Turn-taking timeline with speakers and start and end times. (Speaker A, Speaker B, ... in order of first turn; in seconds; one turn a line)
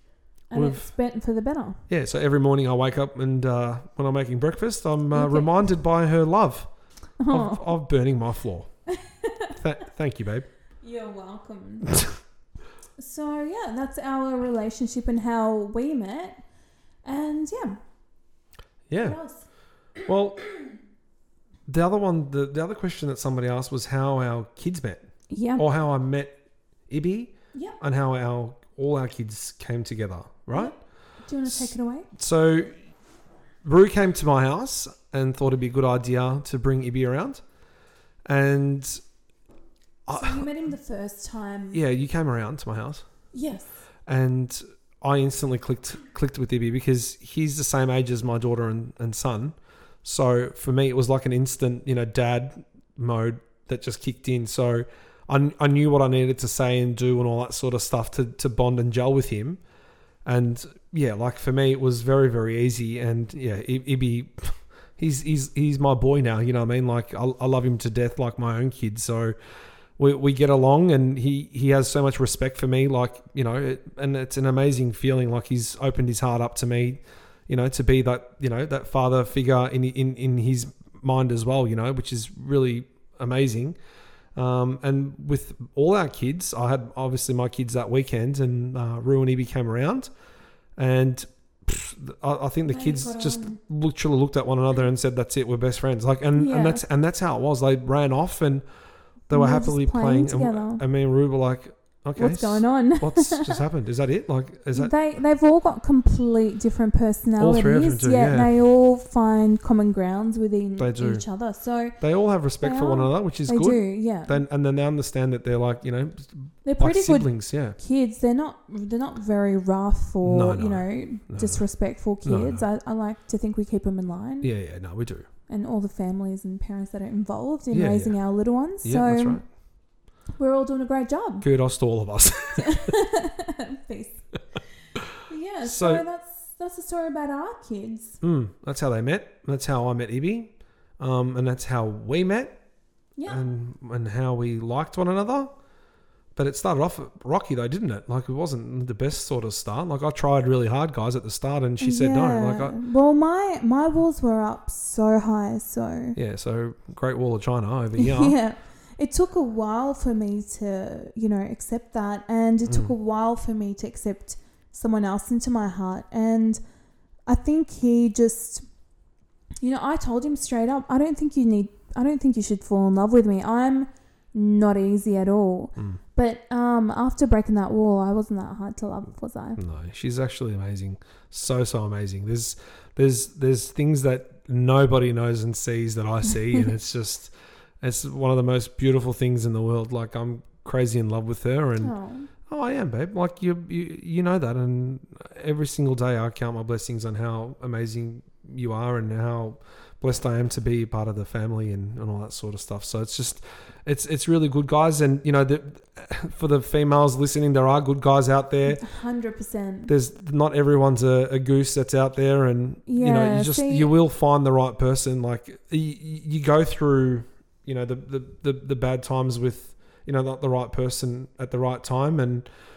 Speaker A: 0.5-1.8
Speaker B: 0.5-0.9
Speaker B: 1.9-6.7
Speaker A: 5.1-5.7
Speaker A: 7.2-7.7
Speaker B: 7.3-8.7
Speaker A: 8.9-9.5
Speaker B: 9.6-10.5
Speaker A: 10.8-12.0
Speaker A: 13.0-16.4
Speaker A: 17.1-17.8
Speaker B: 18.9-19.2
Speaker A: 19.0-19.5
Speaker B: 20.1-20.4
Speaker B: 21.7-25.0
Speaker A: 25.3-25.6
Speaker B: 25.6-26.4
Speaker B: 26.9-30.7
Speaker A: 31.3-32.1
Speaker B: 31.5-32.7
Speaker B: 33.6-37.4
Speaker B: 38.3-39.0
Speaker B: 40.1-40.5
Speaker A: 40.1-41.8
Speaker B: 41.7-43.0
Speaker A: 43.3-43.7
Speaker B: 44.1-59.6
Speaker B: 60.3-69.3
Speaker B: 70.0-83.8
Speaker B: 84.4-90.1
Speaker B: 90.8-98.6
Speaker A: 92.7-93.6
Speaker A: 96.4-96.8
Speaker B: 99.3-104.9
Speaker A: 99.3-100.8
Speaker A: 102.2-103.6
Speaker A: 104.7-112.0
Speaker B: 107.4-108.5
Speaker B: 110.8-111.2
Speaker B: 112.0-117.8
Speaker A: 112.6-114.4
Speaker A: 116.6-124.5
Speaker B: 120.2-121.6
Speaker B: 122.2-122.6
Speaker B: 124.4-125.3
Speaker A: 125.5-129.4
Speaker B: 127.7-128.2
Speaker B: 128.8-129.4
Speaker A: 130.4-131.5
Speaker B: 131.4-132.9
Speaker A: 132.6-134.2
Speaker A: 135.2-138.2
Speaker B: 135.6-136.0
Speaker B: 138.2-142.6
Speaker A: 143.2-143.4
Speaker B: 143.3-145.5
Speaker B: 146.4-152.8
Speaker A: 151.8-156.2
Speaker B: 156.2-158.4
Speaker A: 158.0-166.6
Speaker B: 162.7-162.9
Speaker A: 167.3-168.6
Speaker A: 169.6-179.6
Speaker B: 179.6-191.9
Speaker A: 191.8-192.3
Speaker B: 192.5-208.8
Speaker A: 208.7-209.9
Speaker B: 209.9-222.4
Speaker A: 212.9-213.9